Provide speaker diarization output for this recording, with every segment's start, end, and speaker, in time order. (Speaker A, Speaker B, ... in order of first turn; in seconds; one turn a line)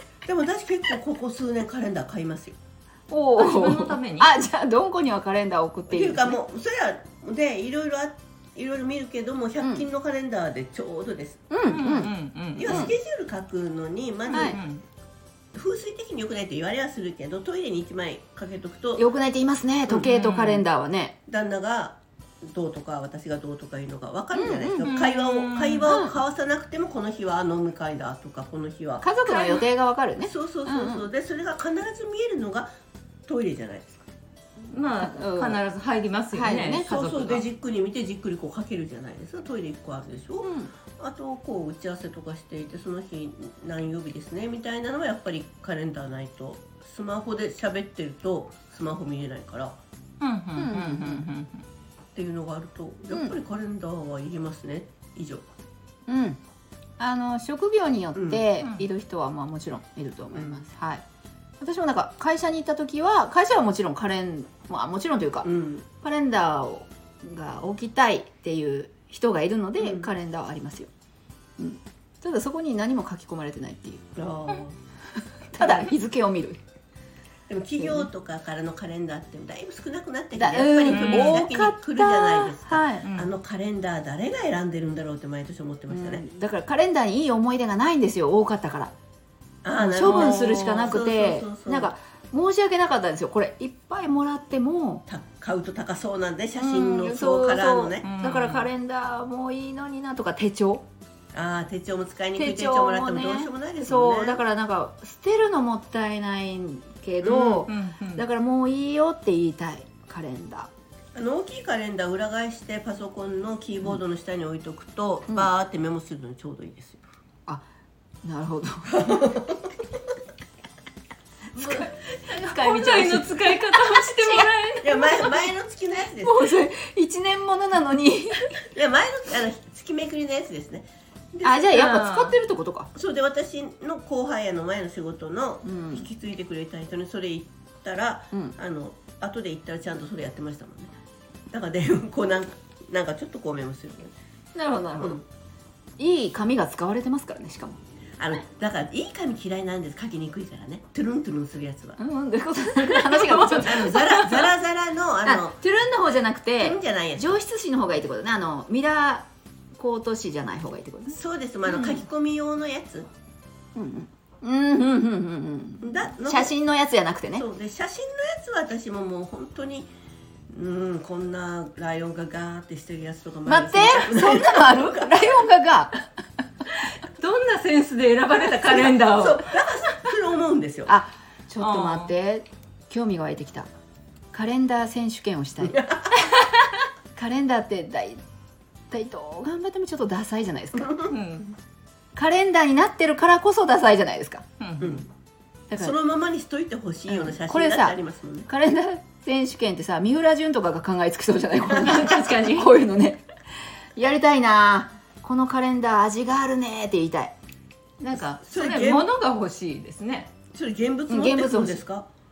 Speaker A: 0.2-2.6
Speaker B: 3.1-6.4
Speaker C: 3.4-4.3
Speaker A: 5.9-11.4
Speaker B: 11.5-12.1
Speaker C: 11.7-12.9
Speaker A: 12.6-14.6
Speaker B: 12.7-12.9
Speaker B: 14.3-14.6
Speaker C: 14.3-14.8
Speaker A: 15.5-19.1
Speaker B: 19.0-21.2
Speaker C: 19.9-20.6
Speaker A: 21.3-29.1
Speaker B: 24.3-24.9
Speaker C: 24.8-26.0
Speaker B: 25.9-26.1
Speaker B: 29.0-31.1
Speaker C: 29.3-29.6
Speaker A: 30.2-32.7
Speaker A: 33.3-34.1
Speaker C: 34.7-37.4
Speaker B: 35.0-35.6
Speaker B: 36.3-36.9
Speaker A: 36.9-49.8
Speaker B: 40.4-40.7
Speaker C: 50.2-51.6
Speaker B: 50.6-51.2
Speaker A: 52.1-55.5
Speaker B: 56.1-56.4
Speaker B: 57.0-61.0
Speaker A: 58.1-58.4
Speaker A: 60.3-60.6
Speaker B: 61.6-65.5
Speaker A: 65.4-65.9
Speaker B: 66.0-70.9
Speaker A: 69.8-70.1
Speaker B: 71.6-74.1
Speaker A: 74.2-74.8
Speaker B: 75.5-76.6
Speaker A: 75.6-75.9
Speaker A: 77.5-86.2
Speaker B: 77.8-78.1
Speaker B: 80.3-83.0
Speaker C: 80.9-81.5
Speaker C: 83.0-83.3
Speaker B: 85.9-88.9
Speaker A: 89.6-91.9
Speaker B: 89.8-95.0
Speaker C: 90.0-90.4
Speaker A: 95.1-98.1
Speaker B: 96.6-100.8
Speaker C: 98.0-98.7
Speaker A: 101.3-104.4
Speaker B: 102.4-110.7
Speaker C: 107.2-108.2
Speaker A: 111.2-117.0
Speaker B: 118.2-119.1
Speaker A: 118.9-119.7
Speaker B: 121.5-124.5
Speaker C: 122.3-125.3
Speaker A: 124.8-126.5
Speaker B: 126.2-128.6
Speaker A: 128.7-131.8
Speaker B: 131.4-132.9
Speaker C: 131.7-132.3
Speaker A: 132.9-140.9
Speaker B: 135.6-136.1
Speaker A: 141.5-144.2
Speaker B: 144.6-145.2
Speaker A: 145.0-145.2
Speaker B: 146.0-147.8
Speaker A: 148.2-152.0
Speaker B: 152.0-154.0
Speaker C: 152.8-154.5
Speaker A: 153.5-155.6
Speaker B: 155.2-161.2
Speaker A: 156.6-157.4
Speaker A: 161.1-163.1
Speaker C: 161.7-162.0
Speaker B: 163.8-167.5
Speaker A: 165.8-166.5
Speaker A: 167.3-169.9
Speaker A: 170.5-175.3
Speaker B: 173.5-176.1
Speaker C: 177.2-179.9
Speaker A: 178.5-180.9
Speaker B: 180.9-183.7
Speaker C: 181.6-182.1
Speaker B: 184.3-185.8
Speaker A: 185.6-186.2
Speaker B: 187.2-188.2
Speaker B: 188.9-191.1
Speaker C: 191.1-191.5
Speaker B: 192.2-194.4
Speaker C: 194.6-195.1
Speaker A: 194.8-195.1
Speaker A: 195.8-198.5
Speaker B: 197.1-203.2
Speaker C: 201.7-202.7
Speaker B: 204.0-207.3
Speaker C: 208.0-210.3
Speaker A: 208.4-209.1
Speaker A: 210.5-212.1
Speaker B: 211.1-211.8